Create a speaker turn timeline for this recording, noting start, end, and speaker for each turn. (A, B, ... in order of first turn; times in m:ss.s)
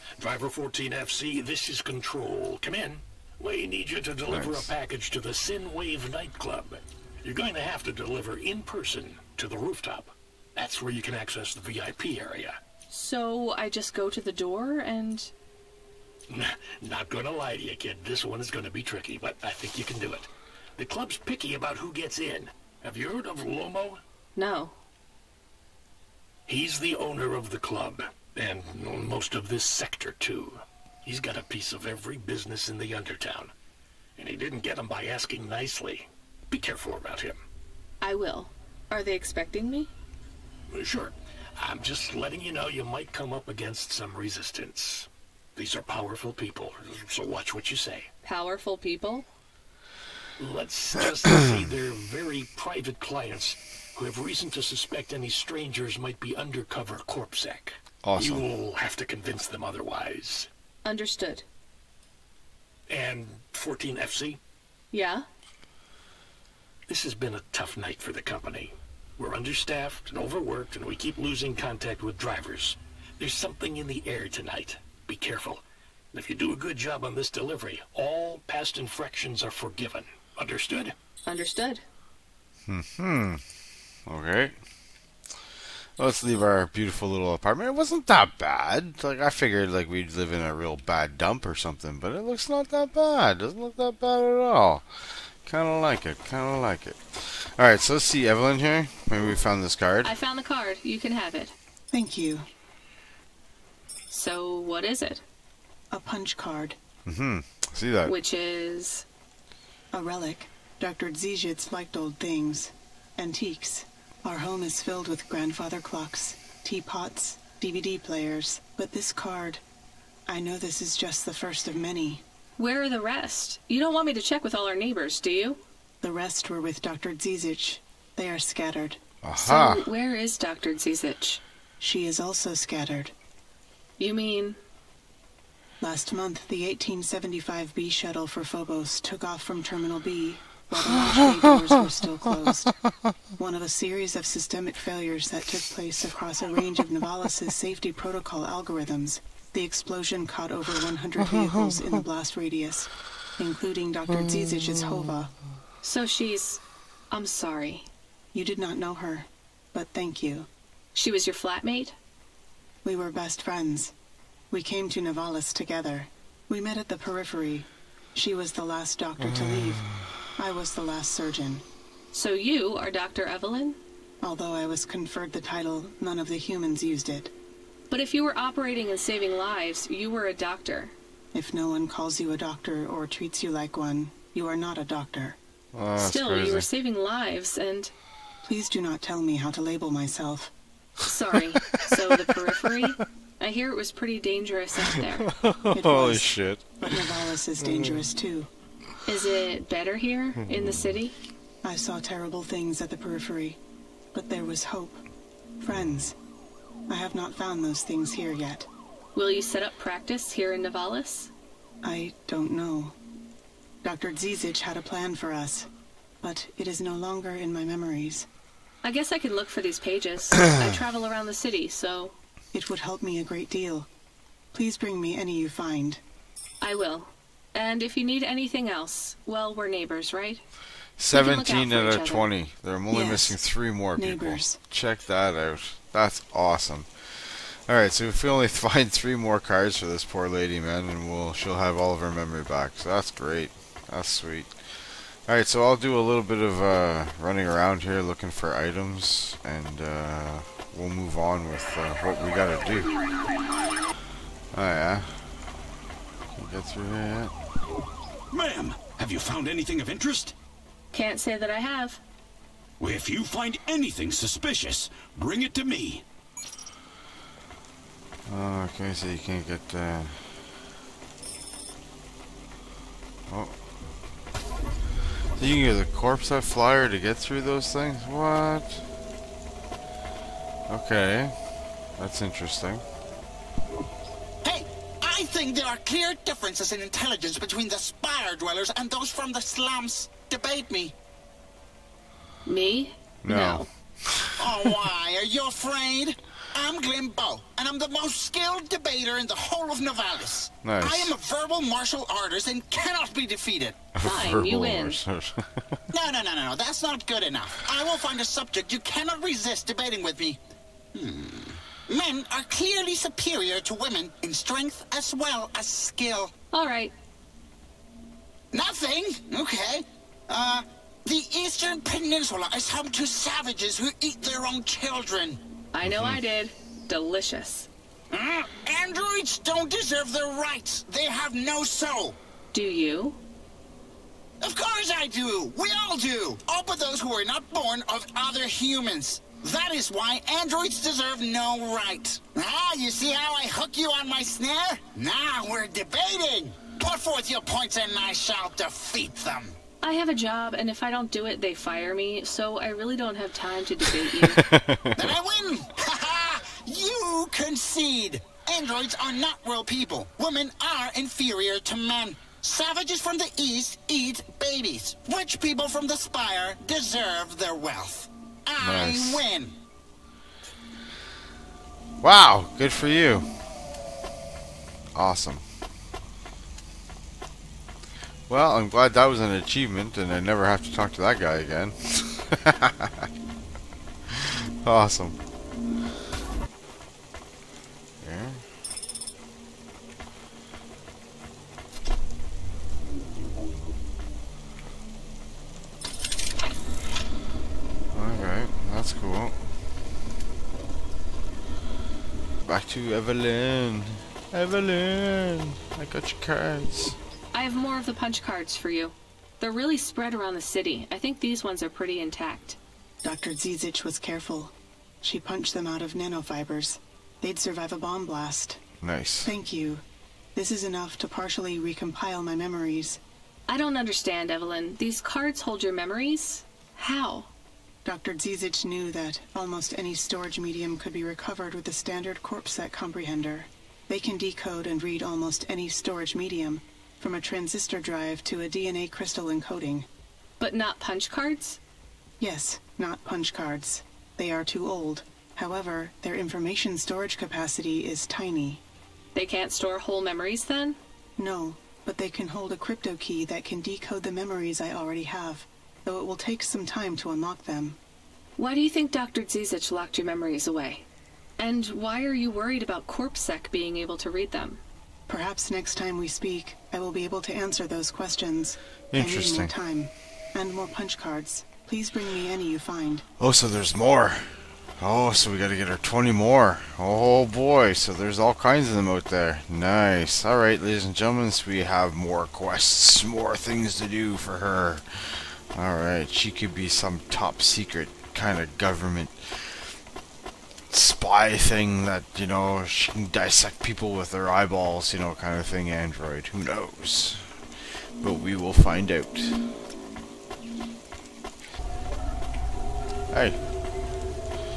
0:00.2-0:12.6 A
0:04.3-0:04.7 B
0:12.9-0:15.3 C
0:16.3-0:24.0 A
0:24.4-0:24.7 C
0:26.5-0:33.5 A
0:34.2-0:37.4 A
0:38.0-0:39.9 C
0:40.7-0:48.1 A
0:48.2-0:49.3 C
0:50.4-1:00.5 A
0:58.0-0:58.5 B
1:00.8-1:01.4 C
1:02.9-1:04.4 A
1:04.9-1:05.2 C
1:06.9-1:20.9 A
1:21.2-1:21.8 C
1:22.7-1:23.4 B
1:24.1-1:24.5 B
1:26.0-1:34.8 B
1:35.4-1:40.1 B
1:40.0-1:41.5 C
1:41.9-1:42.5 D
1:44.1-1:45.2 C
1:45.9-1:46.8 D
1:47.1-1:48.1 B
1:48.0-1:49.0 C
1:49.9-1:59.6 D
2:00.3-2:02.2 D
2:02.6-2:05.6 C
2:06.0-2:09.0 D
2:09.2-2:09.8 B
2:09.4-2:11.4 C
2:11.8-2:13.1 D
2:14.0-2:14.6 C
2:15.8-2:22.7 D
2:23.3-2:35.3 D
2:35.8-2:37.9 C
2:38.3-2:40.5 D
2:40.9-2:41.9 C
2:42.8-2:43.9 D
2:44.5-2:49.8 D
2:49.2-2:50.1 B
2:50.4-2:51.6 D
2:52.1-2:53.8 C
2:54.2-2:57.3 D
2:57.9-3:00.9 C
3:01.3-3:05.4 D
3:05.7-3:06.7 B
3:06.0-3:07.9 C
3:08.4-3:10.5 D
3:11.0-3:15.3 C
3:15.4-3:17.9 B
3:15.7-3:18.5 D
3:19.0-3:21.2 C
3:21.6-3:23.6 D
3:24.1-3:25.0 D
3:25.6-3:26.2 D
3:26.9-3:28.7 D
3:29.1-3:31.3 C
3:31.8-3:33.0 D
3:33.8-3:35.7 D
3:36.2-3:38.3 D
3:38.8-3:42.1 C
3:42.5-3:43.9 D
3:44.5-3:46.0 D
3:46.6-3:50.4 C
3:51.0-4:04.5 B
3:51.1-3:52.3 C
3:52.9-3:53.4 D
3:54.0-3:54.6 D
4:05.2-4:12.9 B
4:14.5-4:15.2 B
4:16.3-4:17.3 B
4:18.3-4:20.3 E
4:20.9-4:22.0 C
4:22.8-4:26.0 E
4:28.3-4:30.2 B
4:33.3-4:33.5 B
4:35.4-4:38.8 B
4:40.7-4:41.3 B
4:42.0-4:42.8 B
4:44.4-4:50.9 F
4:52.4-4:53.6 C
4:53.2-4:54.5 B
4:54.4-5:03.8 F
5:00.6-5:01.1 B
5:04.0-5:05.8 B
5:04.0-5:05.0 C
5:05.9-5:10.4 F
5:10.9-5:16.3 F
5:16.5-5:16.9 C
5:18.5-5:25.4 F
5:25.7-5:27.7 C
5:25.8-5:26.2 B
5:28.1-5:32.2 F
5:32.5-5:33.2 C
5:34.4-5:49.6 F
5:49.8-5:54.5 C
5:54.2-5:55.0 B
5:55.0-6:09.5 F
6:08.6-6:09.2 B
6:12.0-6:13.2 B
6:14.9-6:15.4 B
6:18.3-6:23.0 B
6:24.2-6:25.2 B
6:28.0-6:28.4 B
6:37.9-6:39.3 B
6:42.4-6:47.0 B
6:47.3-6:52.6 C
6:53.0-6:58.6 D
6:58.8-6:59.3 B
6:59.2-6:59.8 D
7:00.3-7:03.0 D
7:03.5-7:07.3 C
7:07.8-7:19.9 D
7:20.4-7:21.6 C
7:22.2-7:28.6 D
7:29.1-7:30.8 C
7:31.2-7:37.8 D
7:38.4-7:40.8 C
7:41.4-7:44.6 C
7:45.1-7:53.1 D
7:48.9-7:49.5 B
7:53.2-8:09.6 B
8:10.7-8:17.3 B
8:18.0-8:19.4 B
8:23.1-8:23.4 B